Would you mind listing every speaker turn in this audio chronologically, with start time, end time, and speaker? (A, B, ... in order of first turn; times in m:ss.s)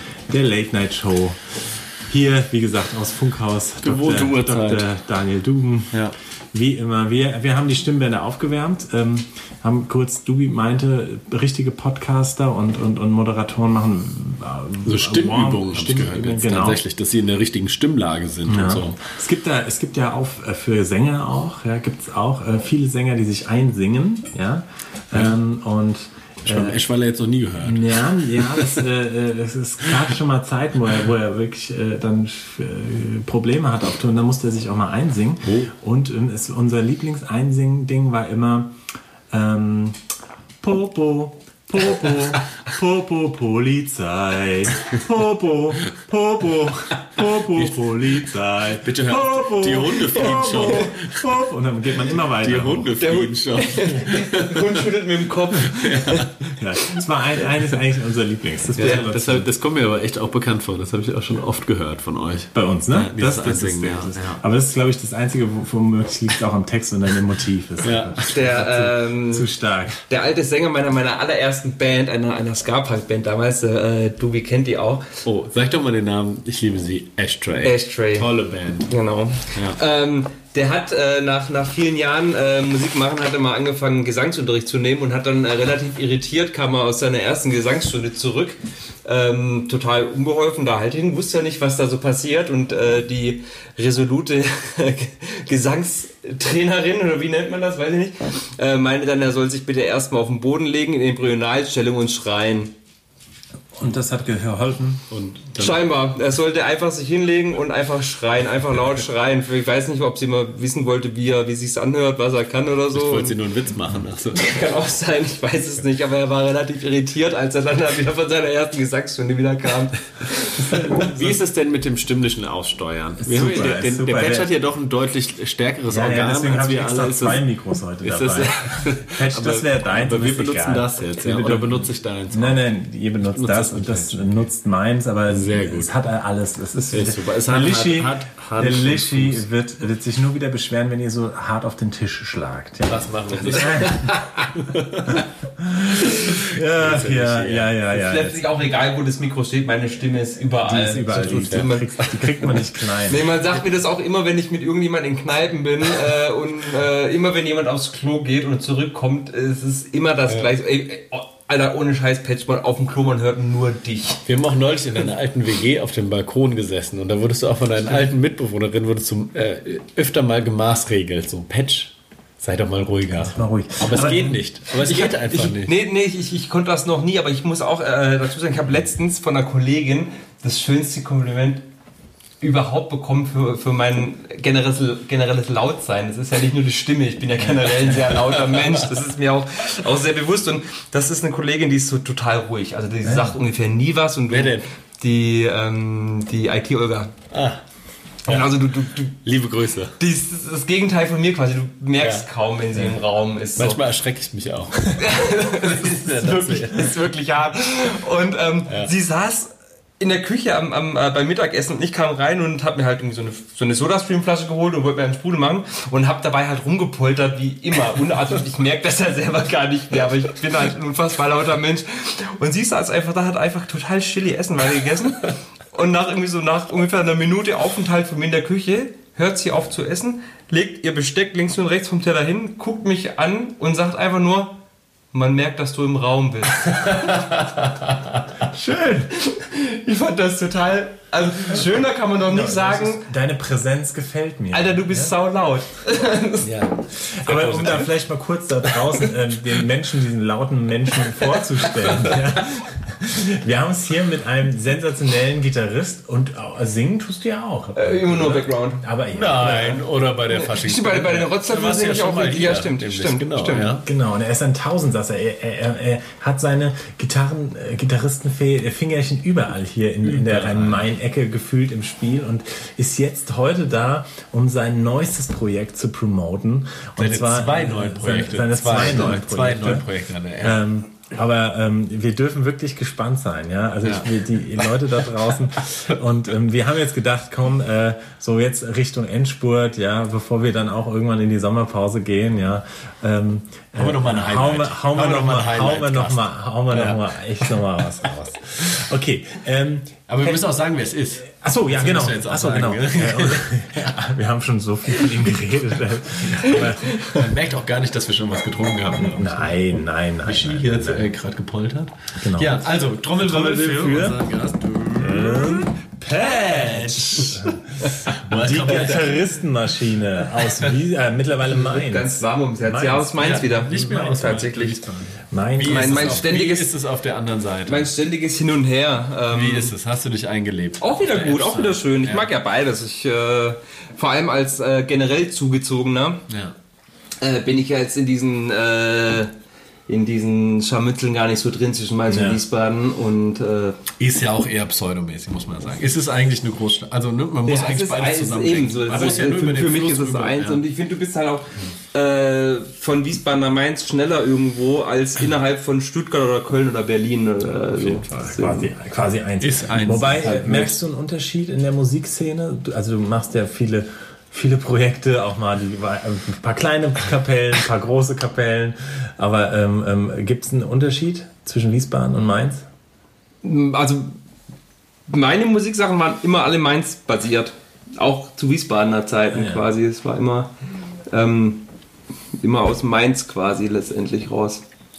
0:00.3-0:16.8 A
0:03.8-0:04.9 B
0:14.8-0:19.0 B
0:18.4-0:26.8 A
0:26.4-0:28.8 B
0:27.6-0:38.7 A
0:39.3-0:40.0 A
0:40.6-0:52.9 A
0:47.5-0:48.1 B
0:48.8-0:51.2 B
0:52.4-0:54.8 B
0:53.0-0:56.3 C
0:55.8-0:56.3 B
0:56.6-0:59.5 A
0:58.8-1:04.4 B
1:02.5-1:10.0 A
1:07.8-1:08.4 B
1:08.3-1:09.5 C
1:10.1-1:15.1 C
1:15.2-1:19.0 B
1:17.6-1:18.3 C
1:18.9-1:42.7 C
1:19.5-1:19.8 B
1:43.7-1:45.0 A
1:45.1-1:45.8 B
1:45.6-1:53.4 C
1:52.9-1:54.5 B
1:54.3-2:01.1 C
2:00.6-2:07.4 B
2:03.2-2:04.5 A
2:05.9-2:24.5 A
2:08.0-2:12.6 B
2:13.3-2:14.3 B
2:15.3-2:15.9 B
2:16.9-2:19.4 B
2:22.9-2:25.2 B
2:25.1-2:28.5 A
2:26.0-2:27.8 B
2:27.9-2:32.3 C
2:30.6-2:33.3 A
2:31.1-2:31.7 B
2:33.0-2:44.2 C
2:44.2-2:55.8 B
2:53.2-2:54.4 A
2:54.8-3:01.6 C
3:02.4-3:17.1 C
3:08.2-3:08.7 B
3:13.0-3:13.4 A
3:14.3-3:14.6 B
3:17.3-3:17.6 B
3:18.2-3:19.2 C
3:18.3-3:18.5 B
3:19.2-3:20.0 B
3:20.0-3:23.8 C
3:22.0-3:23.0 B
3:23.6-3:27.1 B
3:25.0-3:54.6 C
3:28.7-3:28.9 B
3:55.1-3:57.3 C
3:57.0-3:57.8 B
3:58.5-4:03.0 C
4:02.3-4:05.1 A
4:04.5-4:06.5 C
4:06.4-4:07.9 B
4:07.0-4:19.8 A
4:11.9-4:12.2 B
4:17.7-4:18.8 C
4:19.1-4:23.8 B
4:20.3-4:23.8 C
4:23.8-4:39.9 A
4:30.0-4:30.8 B
4:37.0-4:40.6 B
4:40.4-5:00.4 A
4:43.8-4:44.2 B
4:53.8-4:57.5 B
5:00.1-5:04.0 B
5:01.4-5:07.3 A
5:06.3-5:09.5 B
5:09.0-5:11.1 A
5:10.2-5:19.2 B
5:12.2-5:14.2 A
5:15.0-5:26.2 A
5:20.4-5:20.7 B
5:21.5-5:24.8 C
5:23.2-5:24.9 B
5:25.6-5:27.9 B
5:25.6-5:26.7 C
5:27.7-5:29.7 C
5:29.3-5:32.3 B
5:30.8-5:36.2 C
5:36.3-5:36.5 B
5:37.2-5:39.3 C
5:39.9-5:43.8 C
5:42.1-5:42.4 A
5:44.0-5:50.6 B
5:47.4-5:58.7 C
5:57.7-5:58.4 B
5:58.3-6:12.6 A
5:59.4-6:00.7 B
6:13.4-6:14.2 C
6:15.1-6:20.5 C
6:19.3-6:19.7 A
6:21.1-6:21.6 C
6:22.4-6:24.6 C